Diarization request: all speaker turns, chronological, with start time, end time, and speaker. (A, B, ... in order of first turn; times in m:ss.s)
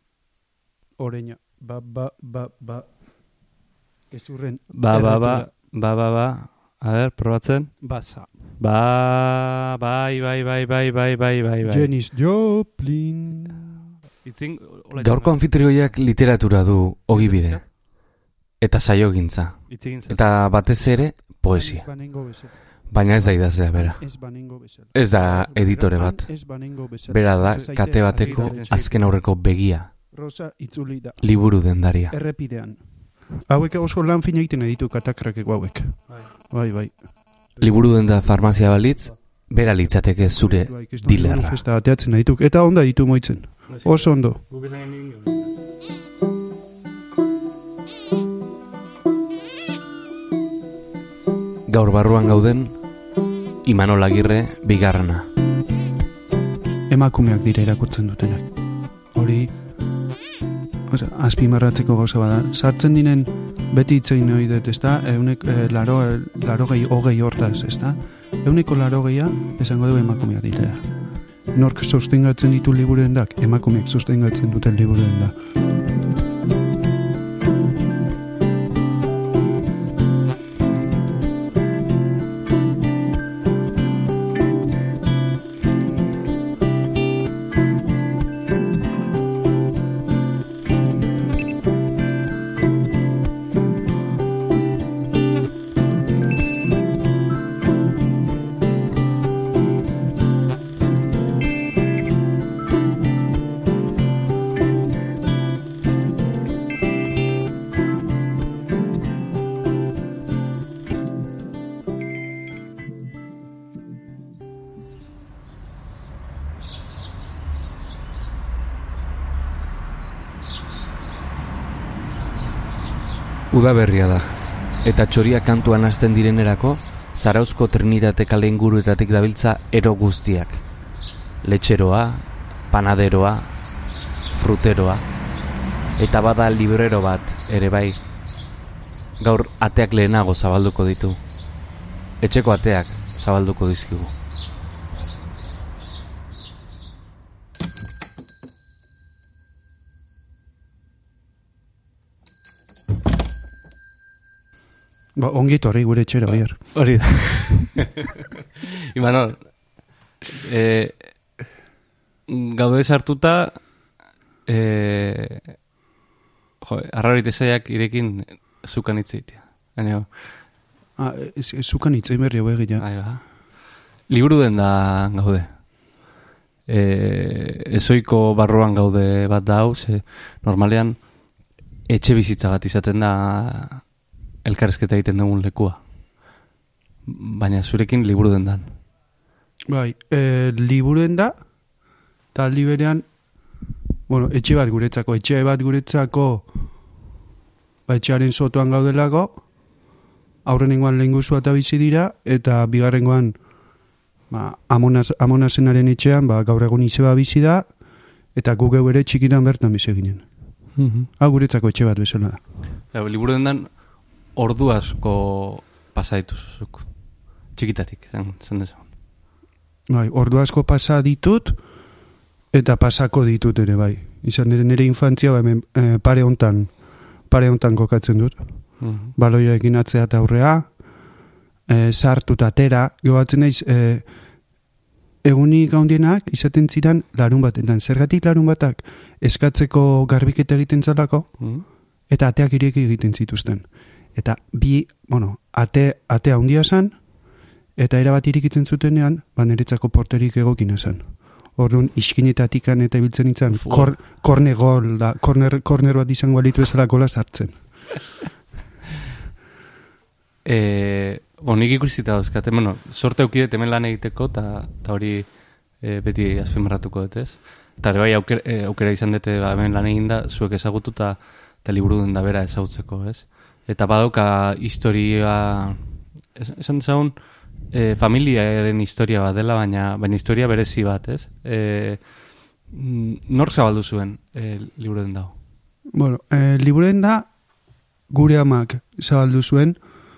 0:01.0-0:02.9 A
0:04.1-0:05.5 A
0:04.7-0:07.8 B
0:07.8-0:08.3 A
0:08.6-0:11.9 B
0:11.6-0:13.8 A
0:14.2-0:15.4 B
0:15.0-0:17.6 C
0:17.1-0:17.6 B
0:18.6-0:21.8 C
0:19.7-0:20.3 B
0:21.5-0:29.0 A
0:22.9-0:24.0 C
0:24.9-0:26.3 C
0:27.1-0:29.9 C
0:28.2-0:29.0 B
0:30.1-0:31.2 A
0:31.2-0:32.1 C
0:32.1-0:32.8 A
0:33.5-0:37.0 A
0:37.6-0:41.6 C
0:39.8-0:44.4 A
0:43.7-0:45.5 B
0:51.7-0:52.7 C
0:53.6-0:55.3 C
0:56.9-0:58.5 A
0:59.1-0:59.5 A
1:00.9-1:10.9 A
1:11.5-1:15.3 A
2:03.5-2:10.6 C
2:11.4-2:13.5 C
2:14.3-2:15.0 C
2:16.0-2:18.0 C
2:19.2-2:21.2 C
2:22.2-2:24.1 C
2:35.2-2:36.7 A
2:36.3-2:41.0 B
2:42.3-2:43.8 B
2:44.4-2:45.5 B
2:46.6-2:50.4 B
2:51.0-2:52.8 A
2:52.8-2:53.4 B
2:54.1-2:55.6 B
2:56.7-3:01.1 B
3:01.9-3:03.9 B
3:04.4-3:05.8 B
3:07.0-3:08.8 B
3:09.7-3:11.4 A
3:12.3-3:13.1 A
3:14.1-3:16.5 A
3:17.9-3:19.4 A
3:20.4-3:23.4 A
3:24.3-3:27.7 A
3:28.3-3:30.2 A
3:30.8-3:31.1 B
3:31.2-3:32.4 A
3:32.9-3:33.8 B
3:34.3-3:36.9 B
3:37.4-3:38.9 B
3:39.9-3:41.6 A
3:42.5-3:46.7 A
3:47.3-3:50.7 A
3:48.8-3:49.1 B
3:51.7-3:54.0 A
3:55.2-4:01.4 A
4:01.4-4:01.6 B
4:02.1-4:07.0 A
4:07.8-4:17.6 A
4:13.5-4:14.0 B
4:20.4-4:42.1 B
4:42.7-4:45.3 B
4:45.9-4:47.3 A
4:48.1-4:49.8 A